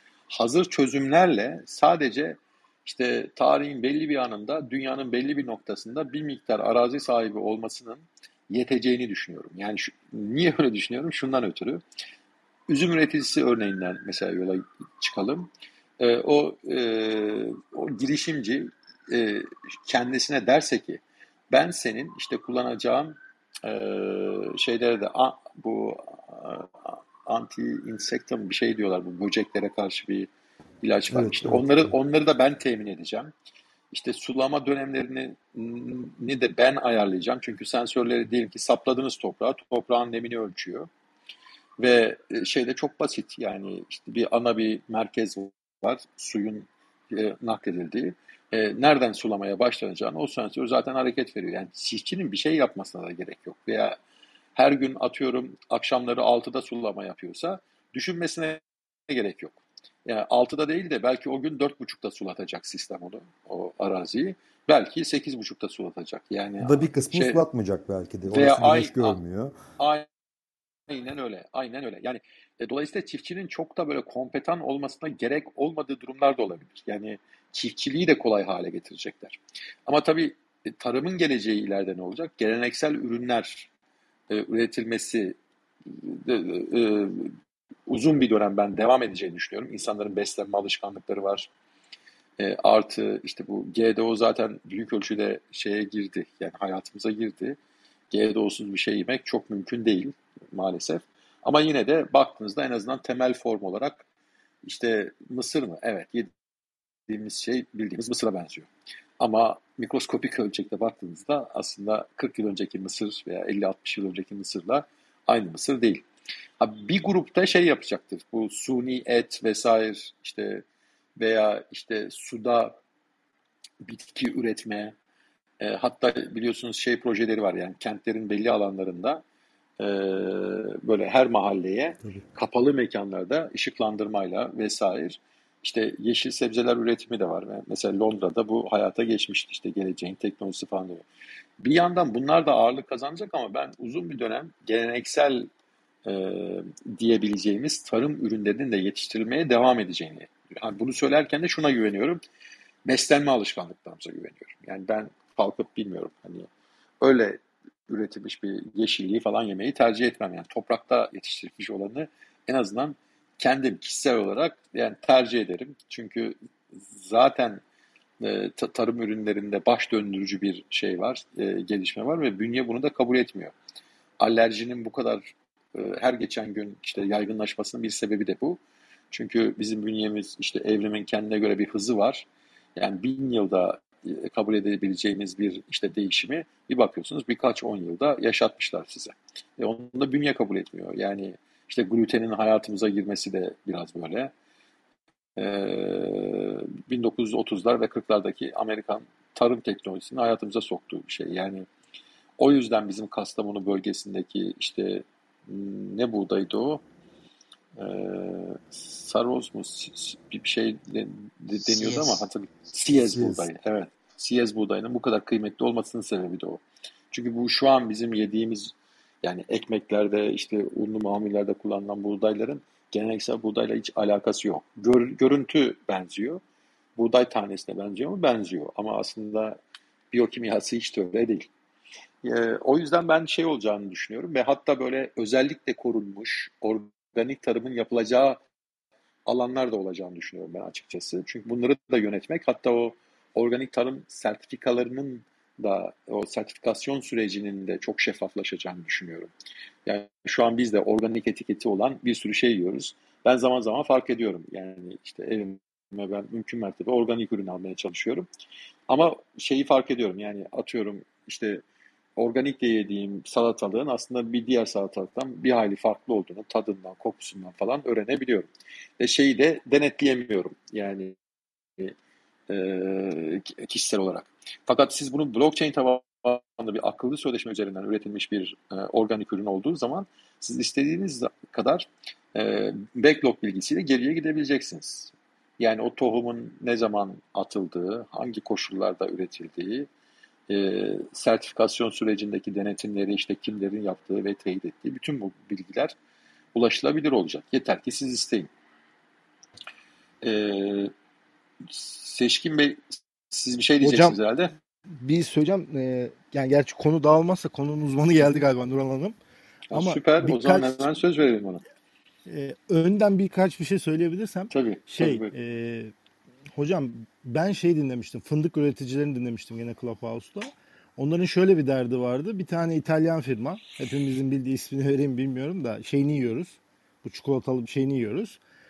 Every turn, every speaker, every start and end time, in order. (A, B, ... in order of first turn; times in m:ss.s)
0:00.3-0:11.8 A
0:12.7-0:30.3 A
0:30.8-0:33.3 A
0:31.1-0:31.9 B
0:33.9-0:40.9 A
0:41.8-0:54.0 A
0:54.5-1:07.4 A
1:06.6-1:09.6 B
1:08.3-1:09.2 A
1:09.8-1:10.1 A
1:10.9-1:23.7 A
1:24.3-1:27.3 A
1:27.9-1:31.5 A
1:32.4-1:37.6 A
1:38.1-1:44.0 A
1:44.6-1:46.3 A
1:47.1-1:56.0 A
1:56.6-2:00.6 A
2:01.2-2:02.8 A
2:03.8-2:04.9 A
2:05.6-2:09.2 A
2:09.8-2:21.0 A
2:21.6-2:25.5 A
2:26.0-2:32.2 A
2:32.8-2:36.5 A
2:37.0-2:47.6 A
2:48.2-2:53.5 A
2:54.2-2:58.6 A
2:59.1-3:14.3 A
3:15.4-3:21.7 A
3:22.4-3:26.8 A
3:27.8-3:46.4 A
3:31.6-3:32.2 B
3:32.9-3:33.5 B
3:47.0-3:49.6 A
3:50.1-3:51.5 A
3:52.2-3:58.4 A
3:59.2-4:09.3 A
4:09.8-4:18.3 A
4:18.9-4:21.6 A
4:22.2-4:31.2 A
4:32.5-4:49.9 A
4:50.5-4:55.9 A
4:56.5-4:58.5 A
5:00.2-5:00.9 A
5:01.6-5:04.5 A
5:03.8-5:04.2 C
5:04.9-5:09.2 C
5:09.7-5:11.6 A
5:09.7-5:10.9 C
5:12.2-5:15.9 C
5:14.5-5:15.3 A
5:16.5-5:28.4 C